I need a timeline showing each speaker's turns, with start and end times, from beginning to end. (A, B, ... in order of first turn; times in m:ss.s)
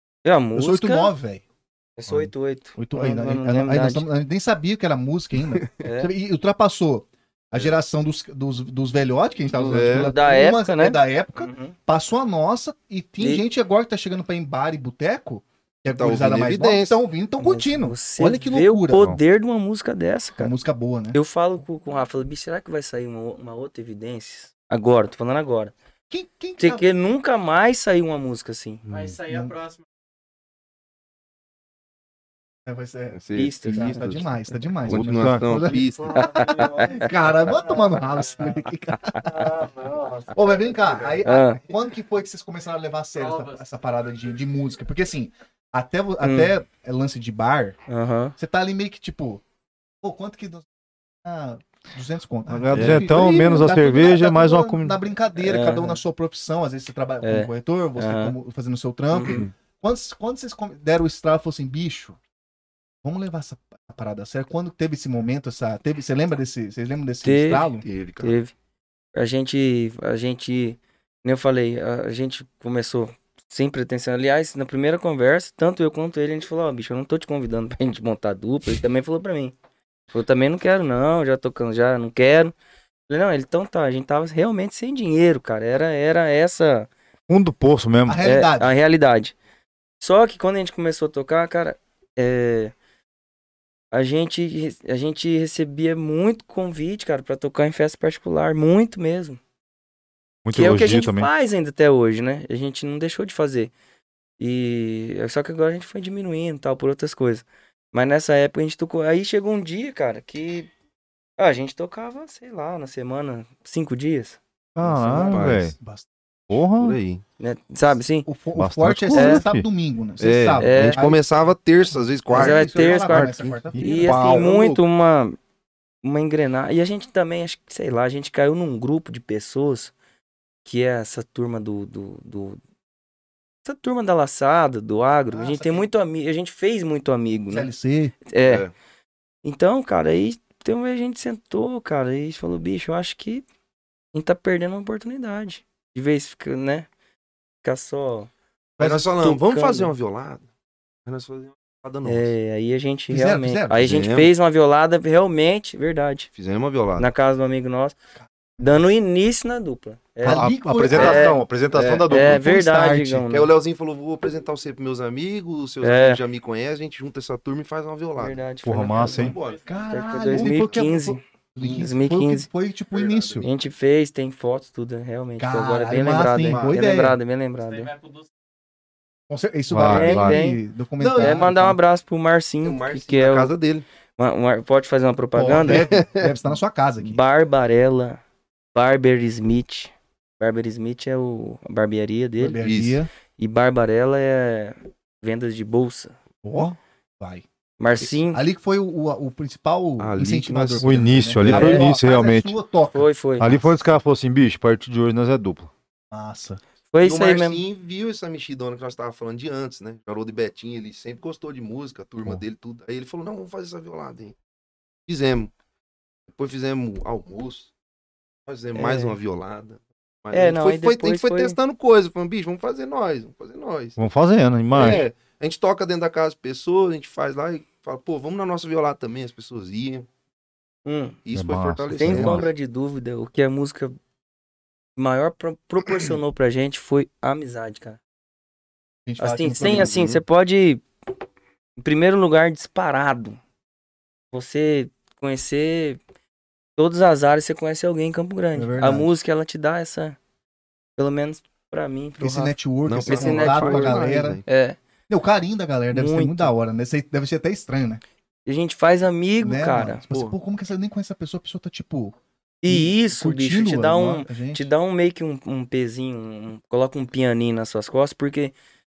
0:00.2-0:01.1 A
0:00.6-0:01.4 B
0:02.0-0:04.1 A
0:02.1-0:19.1 B
0:05.6-0:05.9 C
0:05.8-0:06.1 A
0:09.6-0:10.1 C
0:09.7-0:11.8 A
0:15.9-0:17.0 C
0:17.4-0:20.5 A
0:20.4-0:21.2 B
0:21.1-0:25.7 A
0:26.1-0:26.9 B
0:26.6-0:28.8 A
0:28.9-0:29.2 D
0:28.9-0:29.8 E
0:29.3-0:29.6 B
0:32.7-0:39.6 B
0:33.2-0:34.3 C
0:33.4-0:34.1 A
0:34.8-0:36.8 C
0:34.9-0:35.8 D
0:36.2-0:37.1 A
0:39.2-0:39.5 A
0:39.3-0:40.3 C
0:40.3-0:47.8 B
0:41.2-0:41.6 A
0:43.2-0:43.6 E
0:46.2-0:46.5 A
0:47.9-0:48.4 A
0:48.4-0:49.4 B
0:50.0-0:50.7 B
0:51.2-1:02.2 B
0:52.5-0:55.0 D
0:52.7-0:53.0 C
0:55.4-0:56.0 A
0:57.2-0:58.3 A
0:59.1-0:59.4 A
1:03.0-1:07.8 B
1:07.2-1:07.7 A
1:07.8-1:08.4 C
1:08.2-1:08.5 A
1:09.2-1:19.5 A
1:20.1-1:22.5 A
1:23.1-1:26.9 A
1:27.3-1:28.2 D
1:28.1-1:28.7 B
1:28.2-1:29.3 A
1:30.0-1:32.7 A
1:33.9-1:39.4 A
1:40.4-1:41.3 D
1:40.5-1:43.7 A
1:44.4-1:50.7 A
1:51.4-1:54.4 A
1:54.8-1:55.7 D
1:54.8-1:56.1 B
1:55.1-1:55.7 C
1:56.5-1:57.0 D
1:56.8-1:57.2 C
1:57.4-1:58.3 A
1:58.2-2:01.2 B
1:58.6-1:59.7 D
1:59.1-1:59.4 A
2:00.2-2:04.8 C
2:00.6-2:01.0 A
2:01.9-2:04.4 B
2:02.3-2:05.4 A
2:06.0-2:09.9 A
2:10.6-2:12.6 A
2:13.6-2:17.7 A
2:15.3-2:15.9 B
2:17.5-2:18.2 B
2:18.3-2:18.6 A
2:18.4-2:18.7 C
2:19.4-2:23.4 A
2:24.1-2:26.9 A
2:27.6-2:28.3 A
2:28.8-2:29.1 B
2:28.8-2:30.5 C
2:29.1-2:29.9 A
2:31.0-2:32.3 C
2:32.0-2:36.3 A
2:33.1-2:33.9 B
2:33.8-2:34.3 C
2:36.4-2:37.1 C
2:37.0-2:38.0 A
2:38.6-2:41.4 A
2:40.2-2:41.4 B
2:40.2-2:42.6 D
2:40.9-2:42.2 C
2:42.1-2:43.5 A
2:42.2-2:43.2 B
2:43.3-2:49.7 C
2:45.8-2:46.2 A
2:48.2-2:49.3 A
2:48.6-2:49.4 D
2:49.1-2:49.8 E
2:49.2-2:53.5 B
2:49.9-2:52.5 A
2:50.3-2:50.8 C
2:51.6-2:51.9 C
2:52.9-2:53.5 C
2:53.4-2:57.9 A
2:55.4-2:57.2 B
2:56.1-2:56.8 C
2:57.6-2:58.3 E
2:59.3-3:01.8 B
2:59.7-3:00.4 D
2:59.8-3:00.6 A
3:01.0-3:01.5 C
3:01.2-3:03.5 A
3:02.6-3:03.8 C
3:04.2-3:05.9 A
3:05.4-3:07.2 B
3:05.6-3:06.3 C
3:07.0-3:08.2 A
3:08.7-3:12.6 A
3:12.4-3:13.1 B
3:12.6-3:13.0 C
3:13.4-3:16.1 A
3:16.4-3:17.4 B
3:17.8-3:18.4 A
3:18.0-3:23.8 B
3:20.0-3:21.8 C
3:20.8-3:22.6 D
3:21.5-3:21.8 A
3:22.9-3:23.5 A
3:23.4-3:25.7 D
3:26.1-3:26.6 B
3:26.9-3:27.6 A
3:27.0-3:34.4 C
3:35.1-3:35.5 C
3:36.4-3:37.7 C
3:38.5-3:44.0 C
3:38.7-3:39.2 A
3:40.3-3:41.6 A
3:44.0-3:45.0 D
3:44.7-3:50.1 C
3:50.8-3:51.2 A
3:51.2-3:52.5 C
3:51.3-3:52.5 D
3:51.9-3:54.0 A
3:55.0-3:58.0 A
3:59.1-4:00.0 B
3:59.2-4:00.8 A
3:59.7-4:00.2 C
4:01.8-4:03.4 A
4:04.3-4:06.0 A
4:06.8-4:10.2 A
4:08.6-4:09.1 B
4:11.0-4:12.6 A
4:12.2-4:14.4 B
4:12.9-4:14.4 C
4:13.1-4:14.8 A
4:15.1-4:18.0 B
4:15.9-4:16.5 A
4:18.5-4:20.0 A
4:19.4-4:24.7 B
4:20.1-4:20.4 C
4:22.6-4:28.5 A